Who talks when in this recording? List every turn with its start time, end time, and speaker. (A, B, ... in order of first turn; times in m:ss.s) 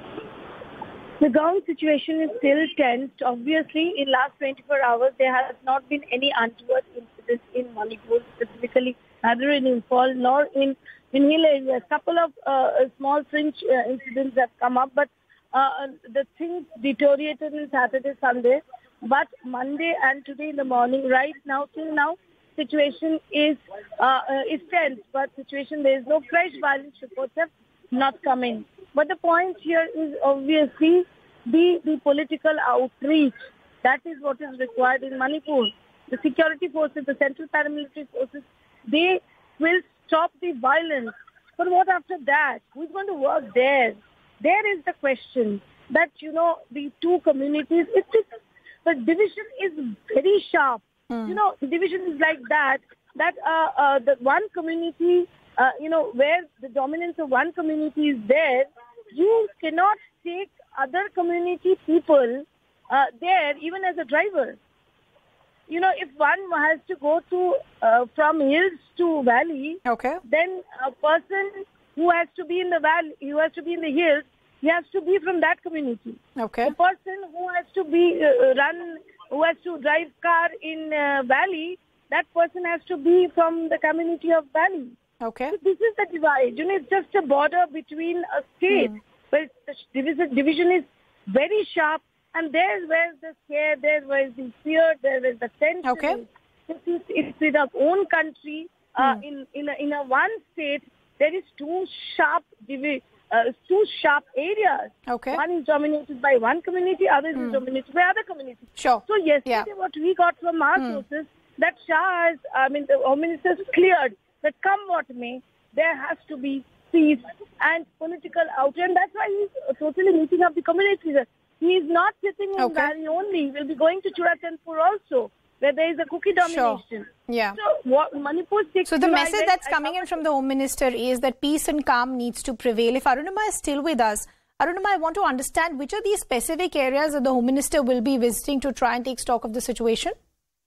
0:01.2-1:04.6 A
0:51.1-0:51.4 B
1:05.7-1:24.9 A
1:09.8-1:10.2 B
1:16.4-1:16.7 B
1:25.2-1:25.6 B
1:25.5-2:10.2 A
1:35.8-1:36.2 B
1:45.1-1:45.4 B
1:48.8-1:49.6 B
1:50.8-1:51.0 B
2:02.6-2:02.9 B
2:06.4-2:07.6 B
2:08.9-2:20.1 B